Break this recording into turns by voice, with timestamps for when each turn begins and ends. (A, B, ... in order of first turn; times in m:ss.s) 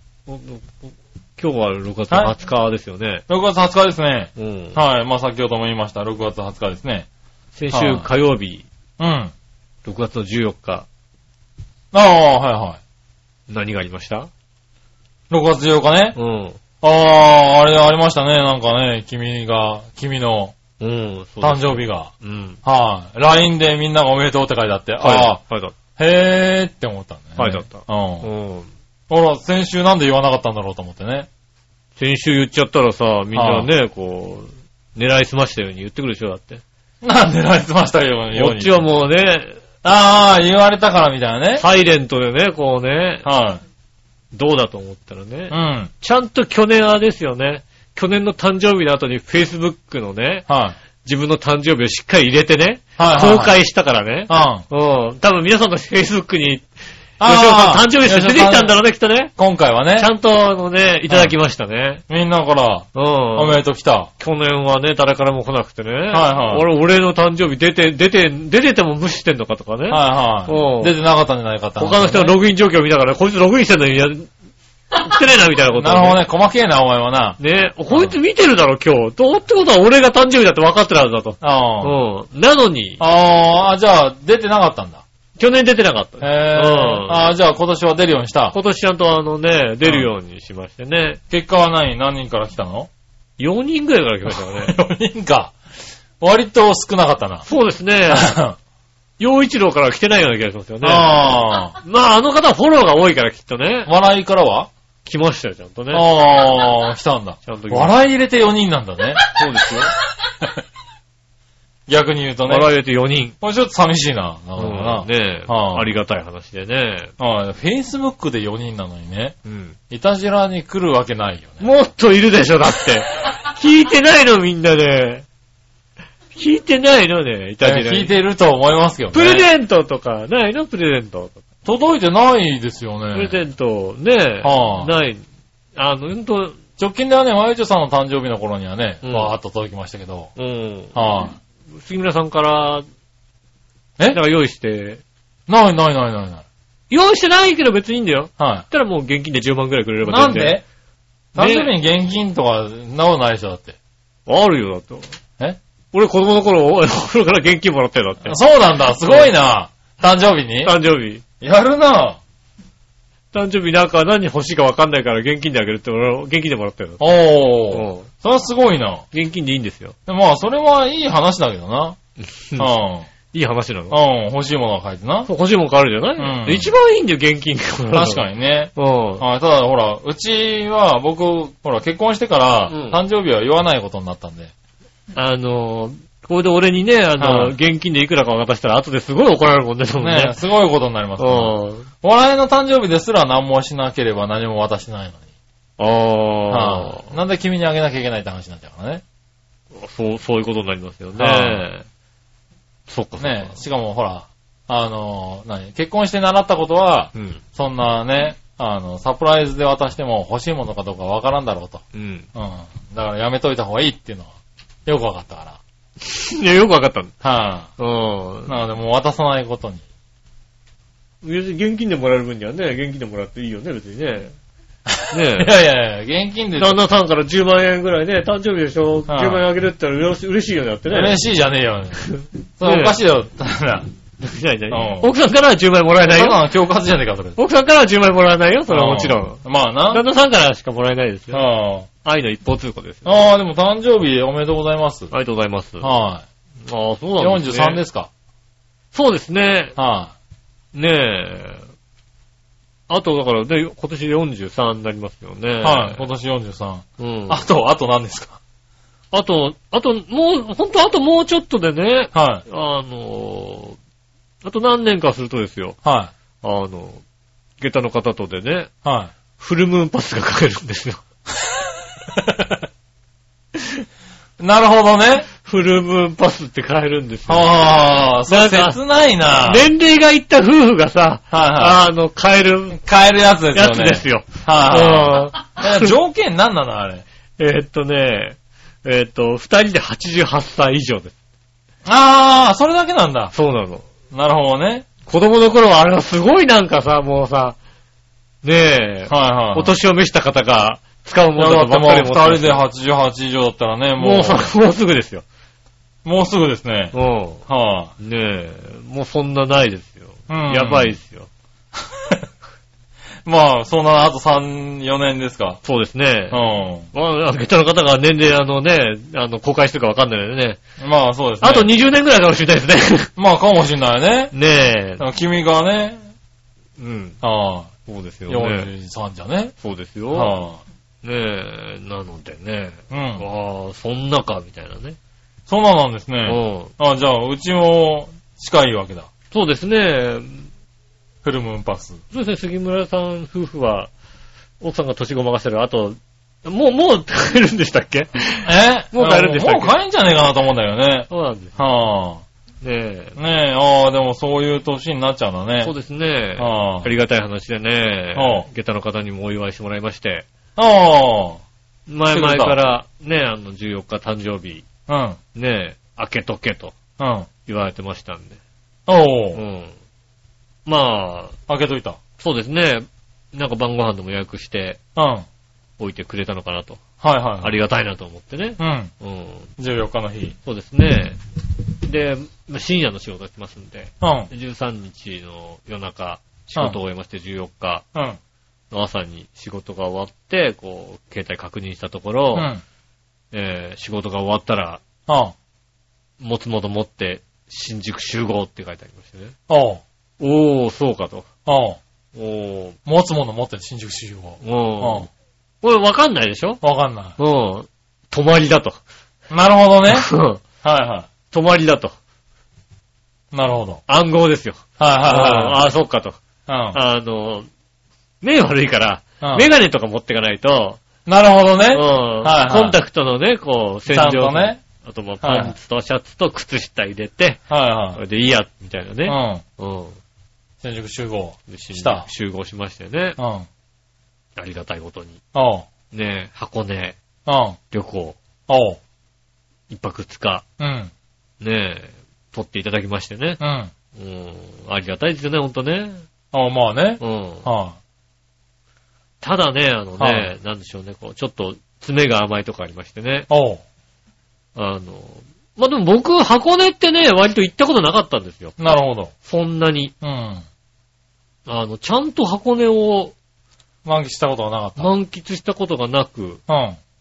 0:00.3-0:03.2 A
0:03.3-0:07.1 B
0:04.4-0:04.8 A
0:07.6-0:08.6 A
0:07.7-0:08.1 B
0:09.0-0:09.3 B
0:09.8-0:10.9 A
0:11.9-0:12.8 B
0:13.5-0:14.3 A
0:15.3-0:16.2 B
0:16.1-0:16.6 A
0:16.8-0:20.5 B
0:20.8-0:22.6 A
0:21.4-0:22.1 B
0:22.6-0:25.4 B
0:25.0-0:25.7 A
0:26.0-0:28.3 B
0:27.4-0:28.7 A
0:29.1-0:31.3 B
0:32.0-0:36.6 A
0:33.3-0:33.7 B
0:37.0-0:38.8 B
0:38.3-0:39.6 A
0:39.8-0:41.6 B
0:41.6-0:43.3 A
0:43.2-0:43.6 B
0:44.3-0:50.5 A
0:45.5-0:45.9 B
0:50.5-0:50.8 B
0:51.0-0:56.7 A
0:53.0-0:53.6 B
0:54.3-0:54.6 B
0:57.2-0:58.8 B
0:57.2-0:59.3 A
0:59.4-1:00.1 B
1:00.0-1:02.0 A
1:01.1-1:01.3 B
1:02.1-1:04.1 B
1:02.9-1:03.6 A
1:04.2-1:10.9 A
1:06.1-1:06.6 B
1:09.9-1:12.4 B
1:11.8-1:14.3 A
1:14.9-1:16.2 A
1:15.7-1:17.4 B
1:17.4-1:23.0 A
1:17.9-1:18.1 B
1:21.4-1:21.9 B
1:23.0-1:25.0 B
1:25.4-1:27.3 A
1:26.2-1:28.6 B
1:28.5-1:31.2 A
1:31.3-1:32.9 B
1:33.4-1:34.7 A
1:34.3-1:35.6 B
1:36.2-1:37.4 B
1:37.4-1:38.3 A
1:38.1-1:38.6 B
1:39.2-1:41.2 A
1:40.8-1:41.8 B
1:41.8-1:43.9 A
1:43.9-1:44.7 B
1:45.0-1:46.0 A
1:45.9-1:49.2 B
1:47.4-1:47.9 A
1:49.3-1:49.9 A
1:51.9-1:52.7 B
1:52.5-1:53.3 A
1:53.4-1:55.8 B
1:54.6-1:57.1 A
1:57.2-1:59.4 B
1:59.4-1:59.8 A
1:59.9-2:01.6 B
2:01.6-2:05.2 A
2:06.3-2:08.2 A
2:07.6-2:09.5 B
2:09.1-2:11.4 A
2:11.6-2:13.4 B
2:13.1-2:15.2 A
2:14.4-2:14.9 B
2:15.8-2:16.6 A
2:16.8-2:20.3 B
2:19.0-2:19.3 A
2:20.4-2:21.0 A
2:20.9-2:21.4 B
2:21.8-2:22.8 A
2:24.1-2:25.0 A
2:25.5-2:26.4 B
2:26.9-2:30.6 A
2:28.4-2:28.6 B
2:30.0-2:30.6 B
2:31.3-2:33.7 B
2:31.4-2:31.7 A
2:34.3-2:35.2 A
2:35.9-2:38.4 A
2:38.2-2:40.7 B
2:39.0-2:39.3 A
2:40.6-2:41.2 A
2:41.4-2:42.2 B
2:43.3-2:47.0 A
2:47.0-2:49.0 B
2:47.7-2:48.1 A
2:49.1-2:49.9 A
2:50.1-2:52.0 B
2:52.4-2:52.7 A
2:52.6-2:53.1 B
2:53.3-2:54.0 A
2:53.9-2:55.3 B
2:55.3-2:58.2 A
2:56.2-2:56.7 B
2:57.9-3:04.5 B
2:58.7-2:59.2 A
3:02.7-3:03.0 A
3:05.1-3:10.4 A
3:07.2-3:07.5 B
3:10.0-3:15.2 B
3:11.2-3:11.9 A
3:15.8-3:17.1 A
3:16.5-3:19.0 B
3:19.7-3:21.8 A
3:21.2-3:21.6 B
3:22.9-3:23.6 A
3:23.2-3:31.8 B
3:27.1-3:27.4 A
3:31.9-3:32.3 A
3:32.3-3:34.3 B
3:34.8-3:35.6 B
3:36.0-3:37.1 A
3:37.2-3:37.7 B
3:37.8-3:38.5 A
3:38.4-3:39.8 B
3:41.2-3:44.3 A
3:44.9-3:46.8 B
3:45.1-3:45.5 A
3:46.6-3:51.2 A
3:49.1-3:49.4 B
3:50.9-3:52.1 B
3:52.1-3:53.0 A
3:52.6-3:53.9 B
3:54.2-3:56.4 A
3:54.7-3:55.1 B
3:56.1-3:57.4 B
3:57.4-4:01.4 A
3:58.7-4:00.0 B
4:01.3-4:01.9 B
4:02.0-4:03.2 A
4:03.0-4:05.1 B
4:05.1-4:05.9 A
4:05.8-4:06.2 B
4:06.6-4:07.8 A
4:07.2-4:08.1 B
4:08.9-4:09.7 A
4:09.8-4:10.1 B
4:10.7-4:11.6 A
4:12.9-4:16.1 A
4:15.6-4:18.4 B
4:17.0-4:17.4 A
4:19.1-4:23.8 A
4:22.1-4:22.4 B
4:24.4-4:25.8 A
4:25.8-4:26.1 B
4:26.4-4:27.0 A
4:27.6-4:28.7 A
4:28.8-4:29.1 B
4:29.4-4:31.0 A
4:32.1-4:32.6 B
4:34.4-4:35.3 B
4:35.4-4:38.8 A
4:37.3-4:39.7 B
4:39.4-4:42.8 A
4:41.3-4:41.9 B
4:42.8-4:47.0 B
4:43.5-4:46.0 A
4:47.4-4:51.1 A
4:51.8-4:53.3 B
4:53.3-4:53.8 A
4:54.1-4:54.9 B
4:55.1-4:57.6 A
4:58.4-5:02.6 A
4:59.1-4:59.8 B
5:01.4-5:04.5 B
5:04.0-5:05.2 A
5:06.0-5:06.9 B
5:06.9-5:07.4 A
5:07.5-5:07.9 B
5:08.0-5:11.3 A
5:10.3-5:11.0 B
5:13.2-5:15.6 B
5:15.6-5:16.4 A
5:16.3-5:16.9 B
5:16.9-5:20.6 A
5:20.8-5:21.7 B
5:21.4-5:23.1 A
5:23.2-5:24.3 B
5:24.3-5:25.0 A
5:25.0-5:26.0 B
5:26.8-5:27.2 A
5:27.2-5:27.7 B
5:27.8-5:28.7 A
5:28.3-5:29.5 B
5:29.6-5:30.4 A
5:30.1-5:30.6 B
5:31.0-5:35.0 A
5:32.9-5:33.2 B
5:35.5-5:39.1 B
5:36.2-5:36.7 A
5:39.3-5:40.5 A
5:41.2-5:42.0 B
5:42.1-5:43.9 A
5:44.6-5:49.7 A
5:48.4-5:52.2 B
5:51.1-5:51.6 A
5:52.6-5:53.2 A
5:53.2-5:55.7 B
5:55.6-6:00.2 A
5:56.4-5:56.9 B
5:58.1-5:58.5 B
6:00.6-6:01.4 B
6:01.9-6:04.6 A
6:02.1-6:02.6 B
6:04.9-6:05.2 B
6:05.3-6:06.7 A
6:07.0-6:07.3 B
6:07.4-6:08.4 A
6:08.9-6:09.4 B
6:09.3-6:09.7 A
6:10.6-6:11.4 A
6:11.5-6:12.0 B
6:12.2-6:14.8 A
6:15.0-6:15.2 B
6:15.8-6:16.8 A
6:17.0-6:17.6 B
6:17.4-6:19.5 A
6:18.6-6:18.9 B
6:19.6-6:20.4 B
6:20.4-6:21.2 A
6:21.8-6:27.8 A
6:24.0-6:24.3 B
6:28.7-6:32.5 A
6:32.3-6:32.6 B
6:33.3-6:34.8 A
6:35.1-6:35.3 B
6:36.2-6:39.3 A
6:39.5-6:39.8 B
6:40.2-6:41.3 A
6:41.4-6:41.8 B
6:42.1-6:42.8 A
6:42.8-6:45.1 B
6:44.4-6:45.1 A
6:45.6-6:46.6 A
6:46.6-6:47.2 B
6:47.2-6:48.8 A
6:49.3-6:50.1 B
6:49.9-6:50.4 A
6:50.6-6:51.1 B
6:51.3-6:51.9 A
6:53.3-6:53.8 B
6:53.9-6:56.2 A
6:54.8-6:55.6 B
6:56.5-6:56.8 B
6:56.7-6:57.5 A
6:58.2-7:00.8 A
6:59.2-6:59.5 B
7:01.0-7:02.8 B
7:01.7-7:07.4 A
7:03.9-7:04.6 B
7:05.2-7:05.6 B
7:07.5-7:08.0 B
7:08.0-7:10.0 A
7:09.0-7:09.4 B
7:10.6-7:12.1 B
7:11.5-7:13.2 A
7:13.2-7:13.5 B
7:14.4-7:15.2 A
7:15.3-7:15.7 B
7:15.9-7:17.0 A
7:17.2-7:17.6 B
7:17.7-7:18.2 A
7:18.5-7:18.8 B
7:19.7-7:20.4 A
7:20.6-7:20.9 B
7:21.4-7:23.4 A
7:23.4-7:23.7 B
7:24.0-7:26.0 A
7:26.3-7:27.8 B
7:27.0-7:27.4 A
7:29.2-7:33.3 A
7:30.0-7:30.3 B
7:33.3-7:33.6 B
7:34.6-7:38.6 A
7:38.6-7:39.1 B
7:39.2-7:39.9 A
7:40.0-7:40.4 B
7:41.4-7:43.1 A
7:43.8-7:44.9 B
7:44.8-7:46.4 A
7:46.5-7:46.8 B